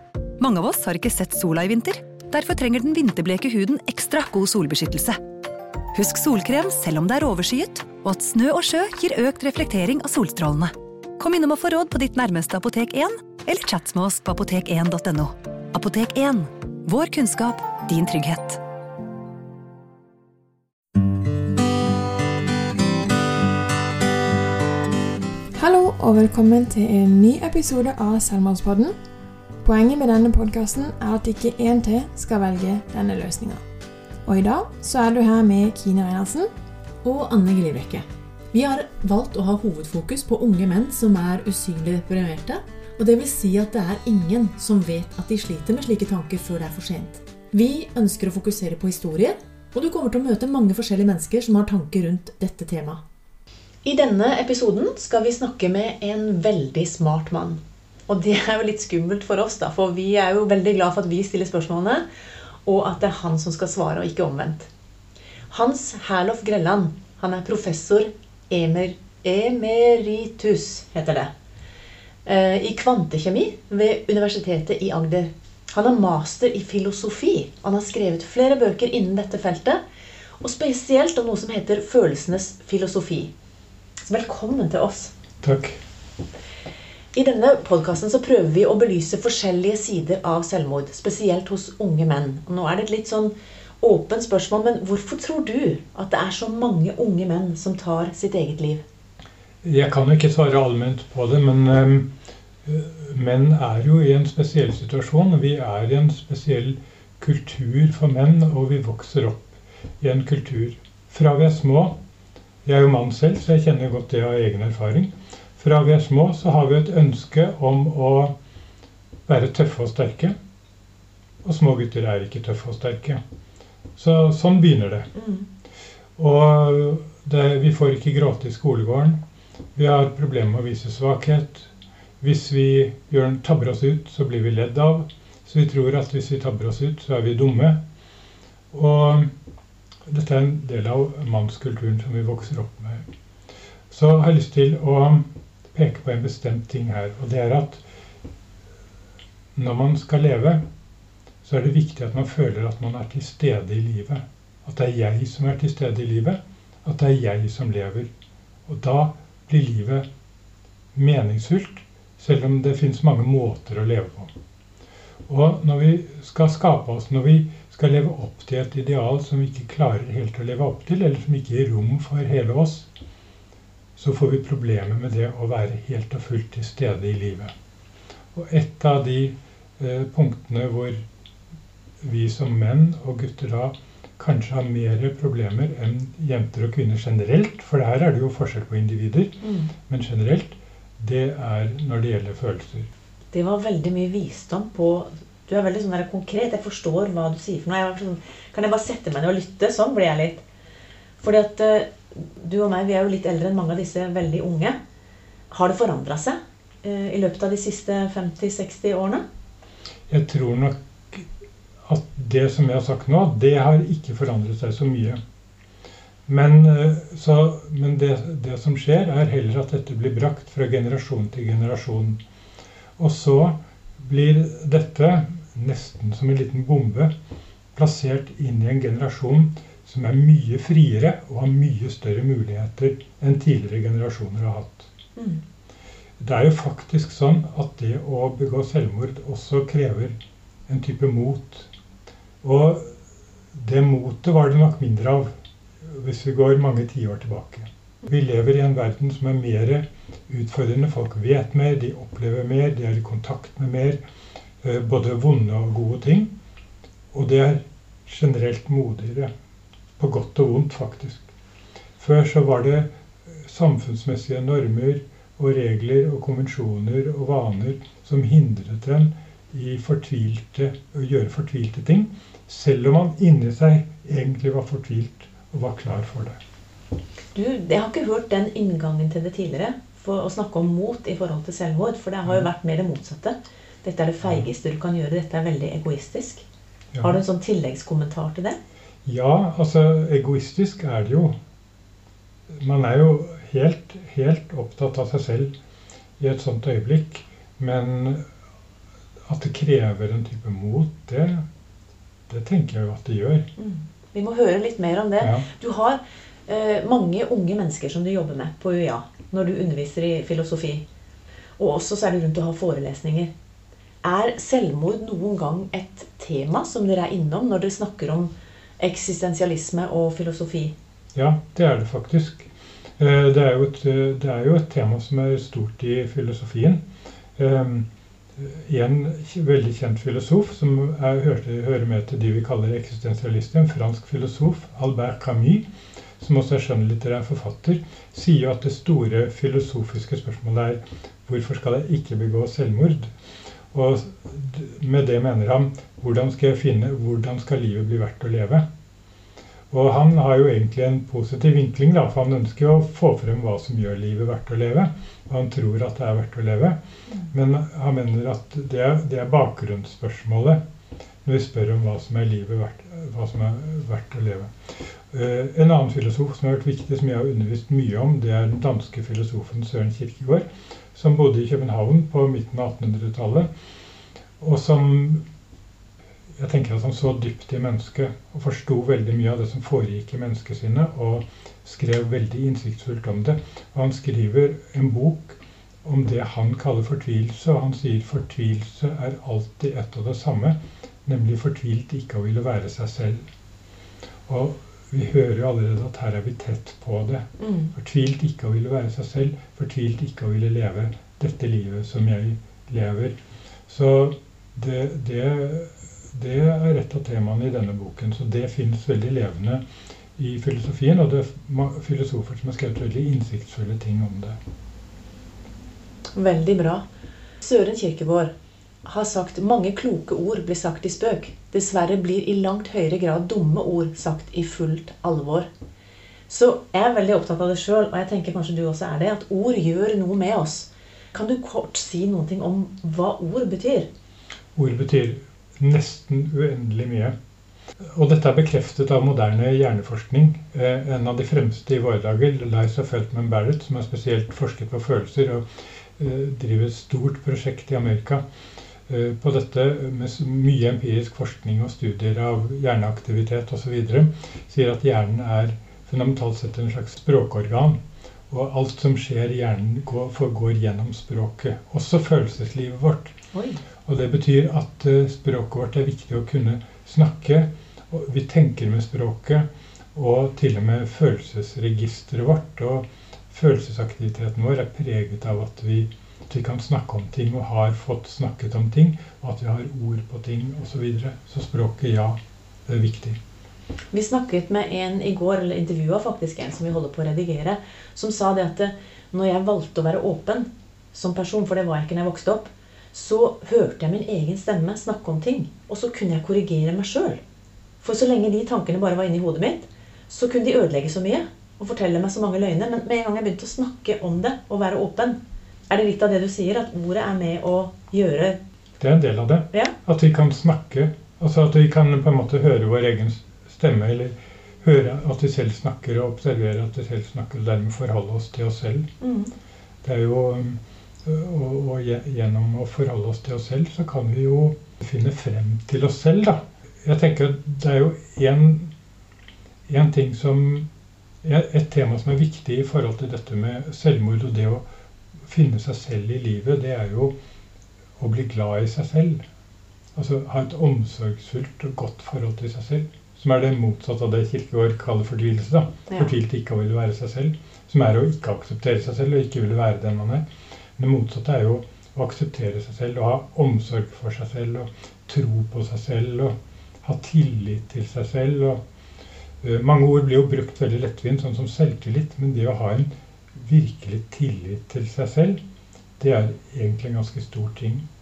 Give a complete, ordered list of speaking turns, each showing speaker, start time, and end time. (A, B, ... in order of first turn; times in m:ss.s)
0:00.4-0:05.2 A
0:05.9-0:18.6 A
0:25.6-0:28.9 B
0:29.6-0:33.6 B
0:34.2-0:36.5 B
0:37.0-0:53.0 C
0:53.8-1:02.0 C
1:02.6-1:04.7 C
1:05.5-1:11.3 C
1:12.2-1:19.8 C
1:20.4-1:23.3 C
1:24.0-1:25.1 C
1:25.4-1:25.8 D
1:27.1-1:38.8 C
1:39.6-1:42.1 D
1:42.6-1:52.0 D
1:52.6-1:58.3 D
1:59.3-2:00.3 D
2:01.4-2:03.2 D
2:04.0-2:05.1 D
2:05.2-2:05.4 C
2:06.2-2:09.2 D
2:09.8-2:17.8 D
2:18.7-2:19.3 D
2:20.1-2:23.0 D
2:23.9-2:27.8 D
2:29.6-2:30.6 D
2:31.4-2:38.1 D
2:38.7-2:40.0 D
2:40.9-2:44.3 D
2:45.3-2:52.9 D
2:54.0-2:57.5 D
2:58.3-3:01.0 D
3:02.0-3:12.9 D
3:09.4-3:09.7 C
3:13.3-3:20.4 C
3:21.2-3:24.8 C
3:25.5-3:29.2 C
3:30.1-3:31.3 D
3:31.8-3:35.2 D
3:36.3-3:42.2 D
3:43.0-3:47.1 D
3:47.7-3:54.9 D
3:56.2-4:00.2 D
4:00.7-4:01.7 D
4:02.4-4:02.9 D
4:03.6-4:05.3 D
4:05.8-4:14.0 D
4:14.6-4:16.3 D
4:17.1-4:19.3 D
4:20.0-4:21.2 D
4:22.0-4:36.4 D
4:37.3-4:46.4 C
4:44.2-4:44.5 D
4:46.9-4:47.2 D
4:47.0-4:48.6 C
4:49.0-4:51.3 D
4:52.6-4:55.5 D
4:56.2-4:58.2 D
4:59.3-5:01.4 D
5:02.3-5:03.5 D
5:03.6-5:10.8 C
5:05.2-5:05.4 D
5:11.6-5:13.3 C
5:14.0-5:20.7 C
5:21.1-5:26.8 D
5:27.4-5:27.9 D
5:28.4-5:35.7 D
5:36.2-5:43.1 D
5:43.7-5:48.6 D
5:49.7-5:56.8 D
5:57.3-6:00.6 D
6:01.2-6:04.5 D
6:05.1-6:13.5 D
6:14.4-6:15.2 D
6:16.4-6:33.2 D
6:34.3-6:43.2 D
6:37.4-6:37.7 C
6:43.7-6:49.6 D
6:50.2-6:54.4 D
6:56.1-6:56.8 C
6:57.4-6:58.3 C
6:58.8-7:05.5 C
7:06.3-7:13.9 C
7:14.6-7:17.1 D
7:17.9-7:25.4 D
7:26.0-7:28.2 D
7:28.9-7:37.8 D
7:38.3-7:43.1 D
7:43.3-7:43.6 C
7:43.8-8:03.2 D
8:03.9-8:17.2 C
8:17.8-8:28.4 C
8:28.8-8:38.9 D
8:39.0-8:39.3 C
8:39.8-8:48.7 D
8:49.7-8:50.7 D
8:51.2-8:54.6 D
8:55.3-8:57.1 D
8:58.0-8:59.2 D
9:00.0-9:10.2 D
9:10.8-9:18.6 D
9:19.4-9:25.4 D
9:26.0-9:27.8 D